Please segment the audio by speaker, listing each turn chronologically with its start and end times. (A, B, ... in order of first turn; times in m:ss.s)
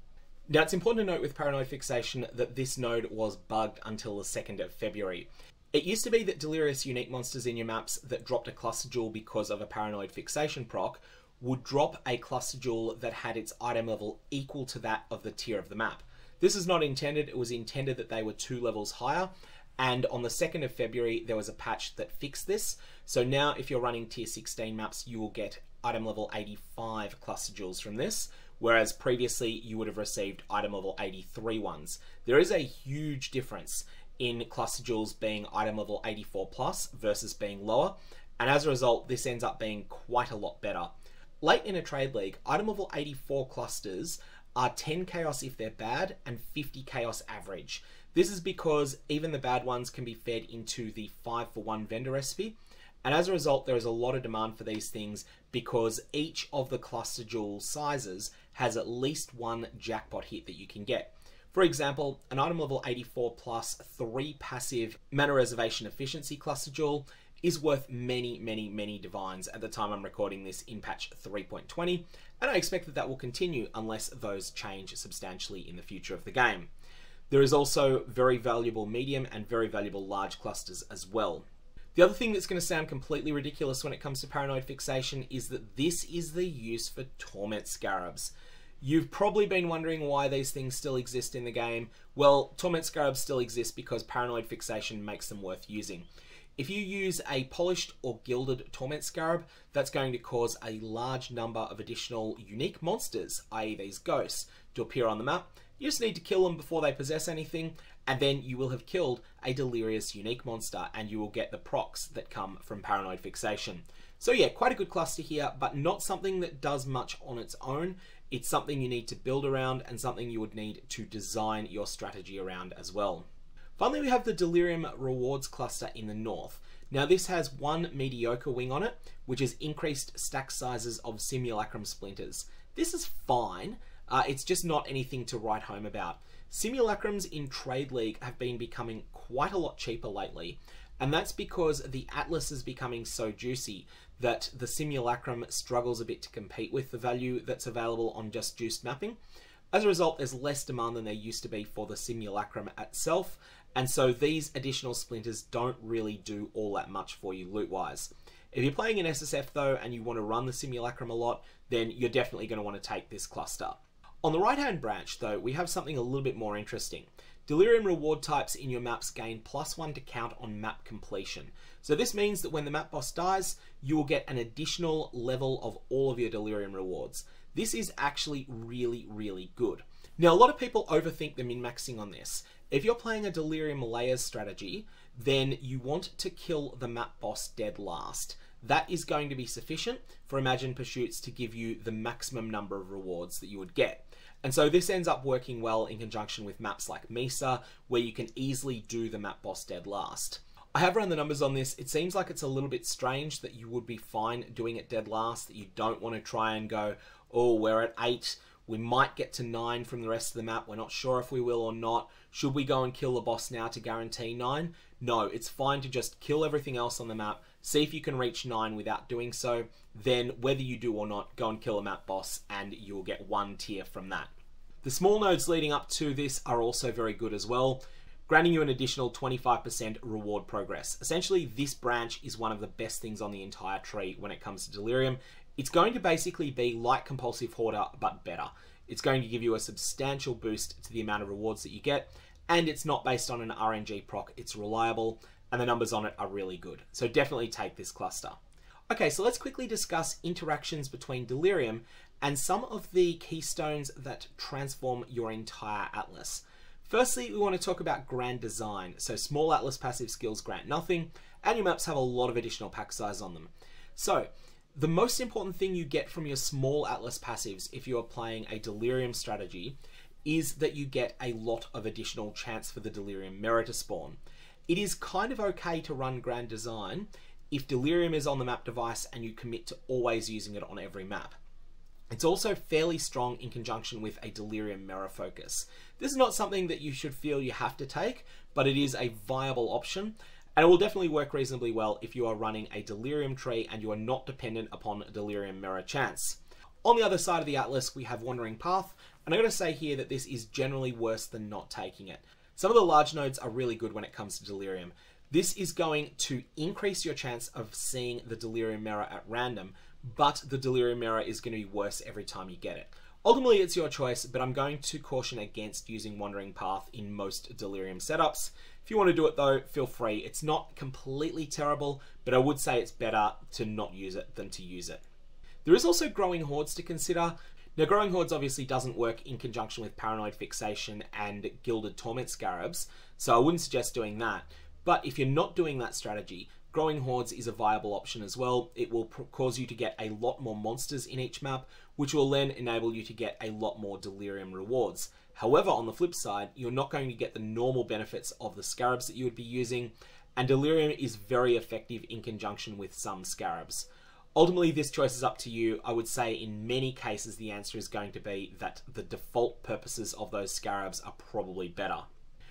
0:00.5-1:16.7 A
1:17.3-1:36.0 A
1:36.6-2:03.2 A
2:03.8-2:29.2 A
2:29.7-3:44.3 A
3:44.8-4:08.4 A
4:08.9-4:41.4 A
4:42.1-5:25.0 A
5:25.6-6:02.1 A